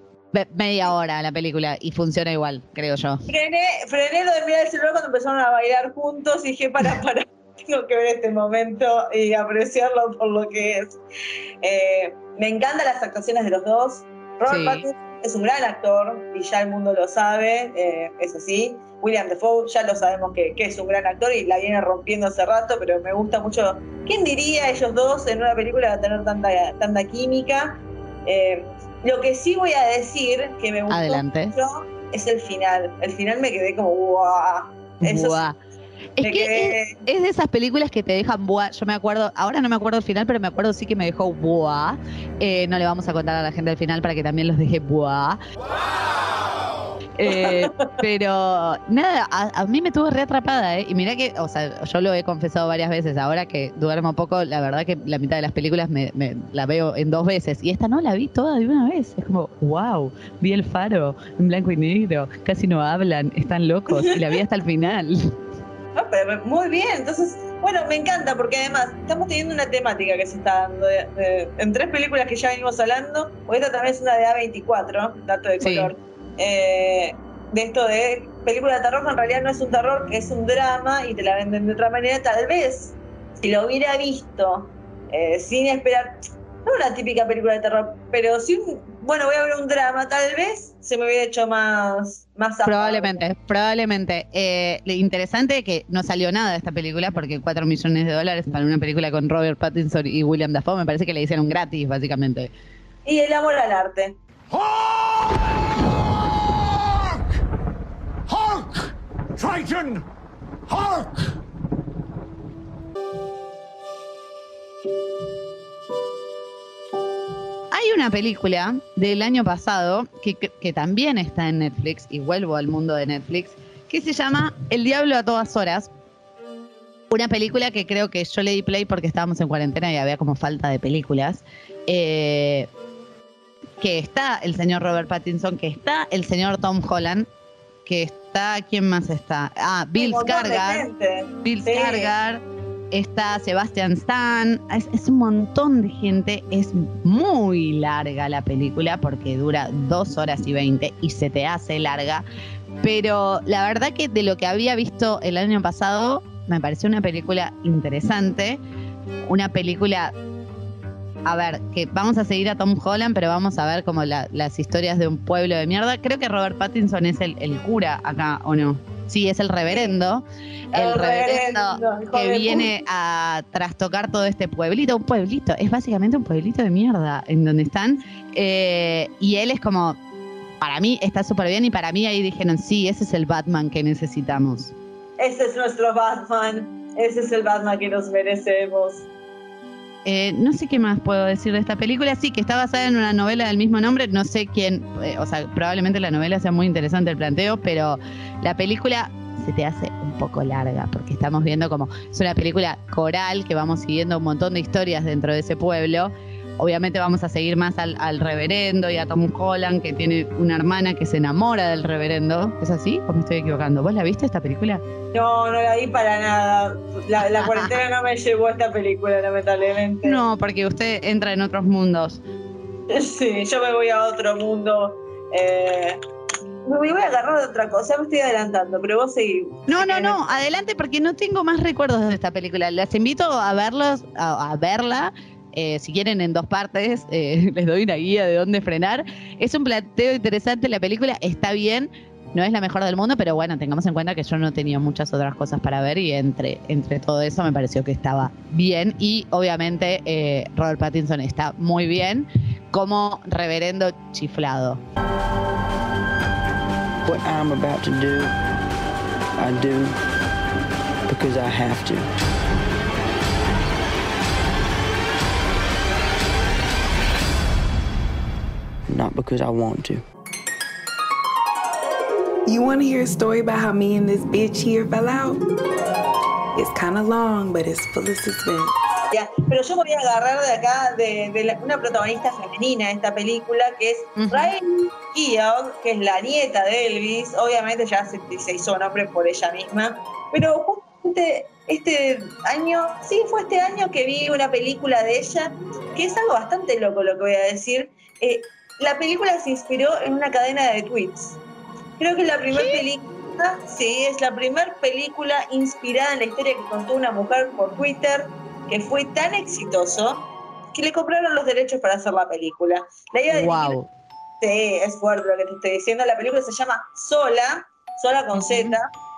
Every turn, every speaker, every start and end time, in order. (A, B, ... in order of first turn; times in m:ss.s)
0:00.3-0:03.2 A
0:03.3-0:11.0 B
0:11.6-0:35.4 B
0:14.5-0:14.8 A
0:30.9-0:31.6 A
0:35.0-0:35.6 A
0:36.2-0:45.4 A
0:36.2-0:37.0 B
0:47.2-1:05.3 A
0:47.3-0:48.0 B
1:03.9-1:04.2 B
1:06.0-1:33.2 B
1:15.6-1:15.9 A
1:32.6-1:42.5 A
1:43.1-1:44.2 B
1:44.5-1:47.2 C
1:48.3-1:48.8 C
1:49.4-1:50.0 C
1:50.7-1:51.1 C
1:57.7-2:05.9 A
2:07.1-2:12.7 A
2:13.8-2:17.3 A
2:17.8-2:20.9 A
2:20.0-2:22.1 B
2:21.4-2:32.2 A
2:32.8-2:38.6 A
2:39.3-2:40.1 A
2:41.2-3:00.0 A
2:49.7-2:50.0 B
2:50.7-2:52.7 B
3:00.6-3:04.7 A
3:05.2-3:09.1 B
3:10.0-3:34.8 A
3:35.1-3:40.2 B
3:37.2-3:37.8 A
3:40.0-3:42.2 A
3:42.9-3:46.0 B
3:46.6-3:50.2 B
3:49.7-4:14.8 A
4:17.0-4:18.4 D
4:19.4-4:20.0 D
4:21.1-4:22.1 D
4:28.9-4:30.0 D
4:32.5-4:35.4 E
4:36.6-4:38.7 E
4:39.1-5:01.4 B
4:44.2-4:44.5 A
5:02.0-5:13.8 B
5:02.5-5:02.8 A
5:13.3-5:13.9 A
5:14.4-5:18.9 B
5:18.3-5:18.8 A